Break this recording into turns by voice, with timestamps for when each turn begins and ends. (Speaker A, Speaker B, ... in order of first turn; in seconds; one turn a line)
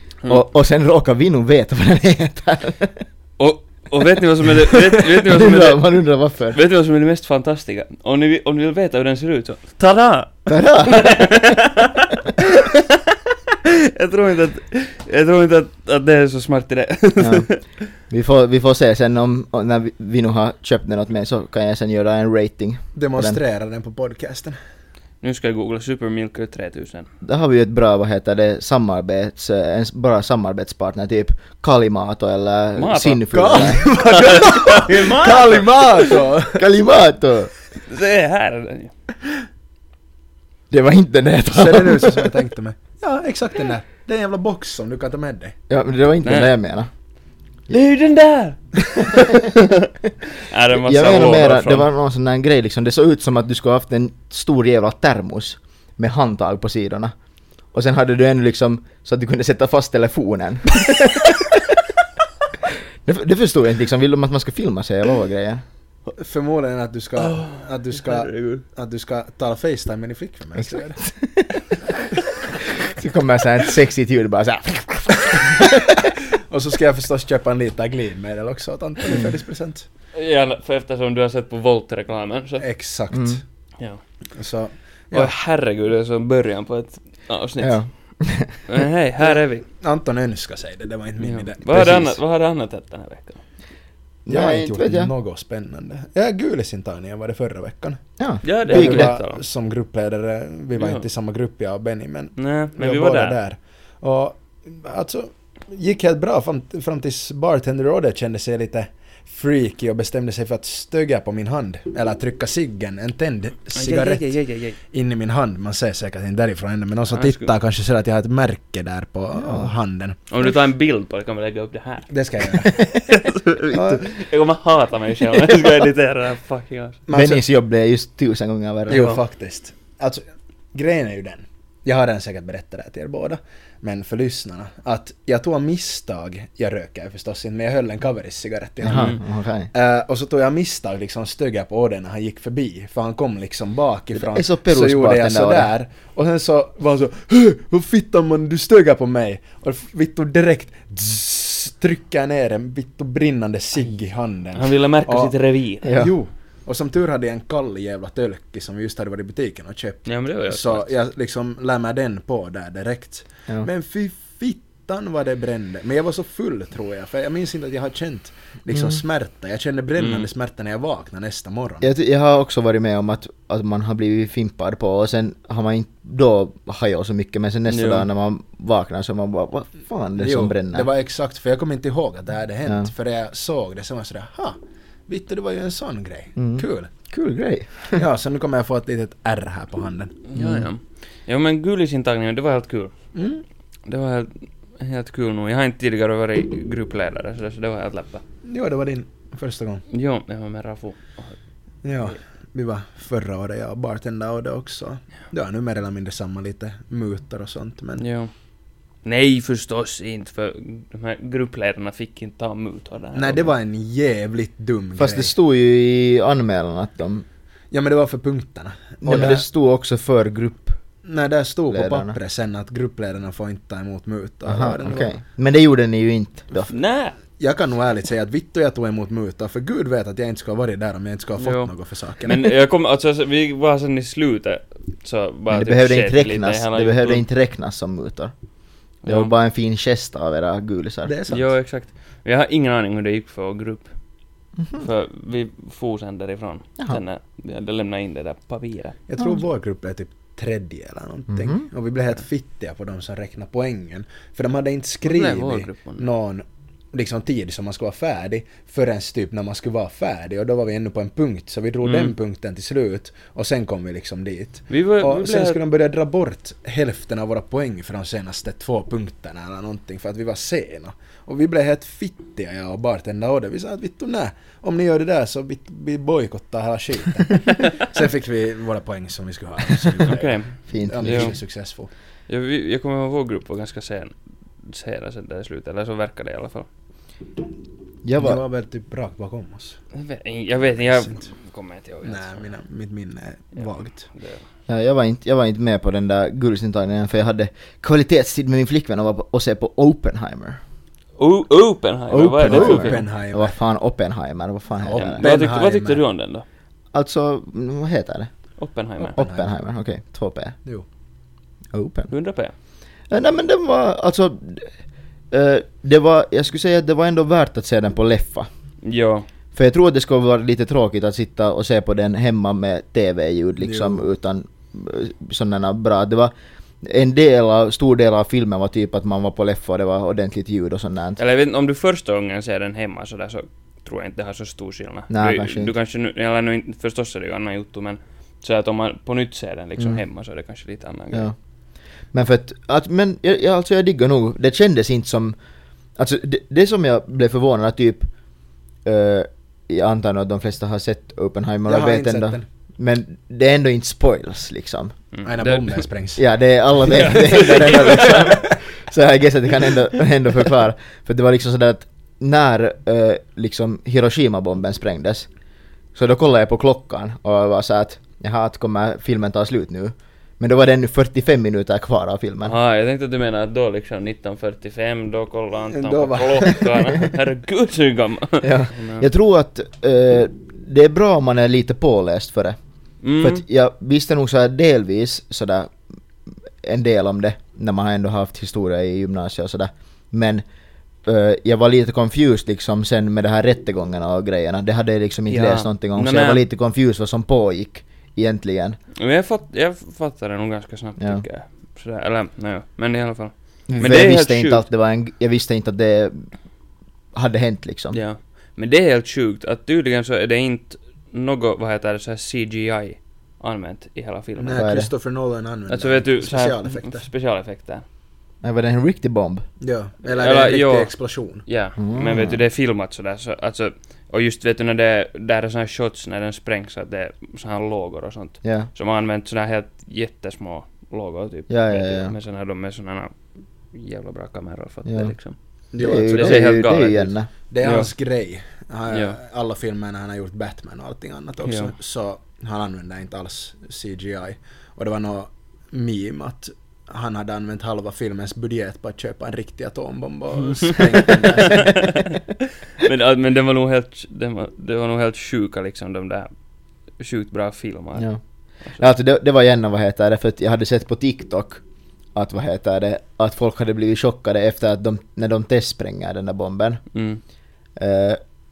Speaker A: 0.2-3.0
Speaker B: 3.4-6.0
Speaker A: 5.2-6.6
Speaker B: 6.5-17.6
Speaker A: 10.5-11.6
Speaker A: 17.2-23.4
Speaker C: 22.9-24.6
Speaker B: 25.2-27.1
Speaker A: 27.2-33.9
Speaker B: 32.7-36.1
Speaker C: 33.3-36.6
Speaker A: 36.5-37.5
Speaker B: 37.9-38.9
Speaker A: 40.7-42.4
Speaker C: 41.5-45.5
Speaker A: 45.7-46.9
Speaker B: 46.2-46.5
Speaker B: 47.7-49.8
Speaker B: 50.4-51.9
Speaker A: 50.7-57.1
Speaker A: 57.7-61.6
Speaker A: 63.0-65.6
Speaker C: 66.1-71.0
Speaker B: 67.2-68.6
Speaker A: 71.1-71.5
Speaker A: 72.8-76.1
Speaker C: 76.4-79.9
Speaker B: 80.1-82.6
Speaker C: 82.6-83.4
Speaker A: 83.1-83.4
Speaker C: 84.3-85.3
Speaker B: 85.1-87.8
Speaker A: 87.6-88.6
Speaker B: 88.7-89.6
Speaker C: 89.3-92.2
Speaker B: 91.2-93.4
Speaker A: 94.2-95.1
Speaker C: 94.3-120.2
Speaker A: 98.2-99.1
Speaker B: 98.4-99.4
Speaker B: 100.8-101.0
Speaker B: 102.4-103.4
Speaker B: 113.7-114.8
Speaker B: 117.1-117.5
Speaker A: 119.4-119.7
Speaker B: 120.3-122.1
Speaker C: 122.1-122.9
Speaker B: 122.8-127.0
Speaker C: 123.7-124.1
Speaker C: 127.1-127.4
Speaker A: 127.1-129.2
Speaker C: 128.9-130.2
Speaker C: 130.7-139.2
Speaker A: 138.8-139.7
Speaker B: 138.9-139.2
Speaker C: 139.7-171.9
Speaker A: 144.1-145.7
Speaker B: 154.5-155.9
Speaker A: 155.8-156.1
Speaker B: 160.1-160.9
Speaker A: 168.7-169.0
Speaker B: 170.0-170.3
Speaker A: 171.8-180.9
Speaker B: 177.7-178.1
Speaker C: 180.2-186.9
Speaker A: 186.3-187.9
Speaker C: 187.9-190.2
Speaker B: 190.3-192.9
Speaker A: 190.3-190.7
Speaker C: 193.1-193.4
Speaker B: 193.8-198.2
Speaker C: 198.4-199.8
Speaker B: 199.9-201.3
Speaker C: 201.8-208.0
Speaker B: 208.0-208.3
Speaker B: 209.0-213.5
Speaker C: 213.1-215.3
Speaker A: 215.0-217.2
Speaker C: 217.7-219.4
Speaker A: 219.0-220.8
Speaker C: 221.0-225.1
Speaker A: 221.7-222.2
Speaker A: 224.5-226.7
Speaker B: 226.7-227.2
Speaker C: 227.4-232.3
Speaker B: 231.4-231.7
Speaker B: 232.2-237.2
Speaker A: 235.5-238.3
Speaker B: 239.0-239.3
Speaker A: 239.0-241.1
Speaker C: 241.1-241.5
Speaker B: 241.3-243.9
Speaker A: 244.6-244.8
Speaker B: 244.8-248.9
Speaker C: 249.1-281.9
Speaker A: 251.3-251.6
Speaker B: 255.0-256.0
Speaker B: 261.8-262.1
Speaker B: 264.7-265.6
Speaker B: 280.0-281.3
Speaker A: 280.7-281.3
Speaker B: 282.3-286.7
Speaker A: 288.0-288.4
Speaker C: 288.2-289.8
Speaker B: 289.9-292.6
Speaker C: 290.9-291.3
Speaker C: 292.0-294.1
Speaker B: 293.6-294.4
Speaker A: 294.7-300.6
Speaker B: 301.2-303.0
Speaker A: 302.1-305.2
Speaker C: 302.4-303.6
Speaker C: 304.8-306.0
Speaker B: 305.0-306.4
Speaker A: 306.9-308.3
Speaker B: 308.6-309.2
Speaker A: 309.1-310.6
Speaker C: 309.1-309.5
Speaker A: 311.7-312.1
Speaker B: 312.1-312.5
Speaker A: 313.1-314.7
Speaker A: 315.3-318.5
Speaker B: 318.8-319.2
Speaker A: 319.5-331.2
Speaker C: 323.6-324.1
Speaker B: 331.2-341.3
Speaker A: 335.1-335.7
Speaker A: 342.1-345.3
Speaker A: 345.9-348.1
Speaker A: 348.8-354.9
Speaker C: 351.6-352.4
Speaker B: 355.1-355.8
Speaker C: 355.2-356.2
Speaker A: 356.2-365.3
Speaker C: 356.8-358.5
Speaker B: 357.2-358.2
Speaker A: 365.9-372.5
Speaker B: 372.4-379.1
Speaker C: 375.7-376.8
Speaker A: 378.4-382.6
Speaker B: 383.0-383.4
Speaker A: 383.2-385.7
Speaker A: 386.6-390.4
Speaker A: 391.0-398.8
Speaker B: 395.3-396.4
Speaker B: 399.0-404.7
Speaker A: 401.0-401.2
Speaker A: 403.7-406.3
Speaker A: 407.1-408.0
Speaker B: 407.9-414.6
Speaker C: 414.4-417.1
Speaker A: 414.6-414.9
Speaker B: 415.7-417.8
Speaker A: 418.4-419.4
Speaker C: 419.6-421.4
Speaker B: 420.0-420.9
Speaker B: 421.4-435.4
Speaker A: 421.8-422.4
Speaker A: 428.4-428.7
Speaker A: 431.5-432.1
Speaker A: 434.9-435.1
Speaker C: 435.7-436.5
Speaker A: 435.8-437.3
Speaker B: 436.0-437.9
Speaker C: 437.5-451.9
Speaker B: 438.9-439.2
Speaker B: 441.4-441.7
Speaker B: 451.0-452.2
Speaker B: 452.8-456.3
Speaker B: 457.0-458.1
Speaker A: 458.8-461.6
Speaker A: 462.1-466.8
Speaker B: 466.9-467.2
Speaker A: 467.8-468.2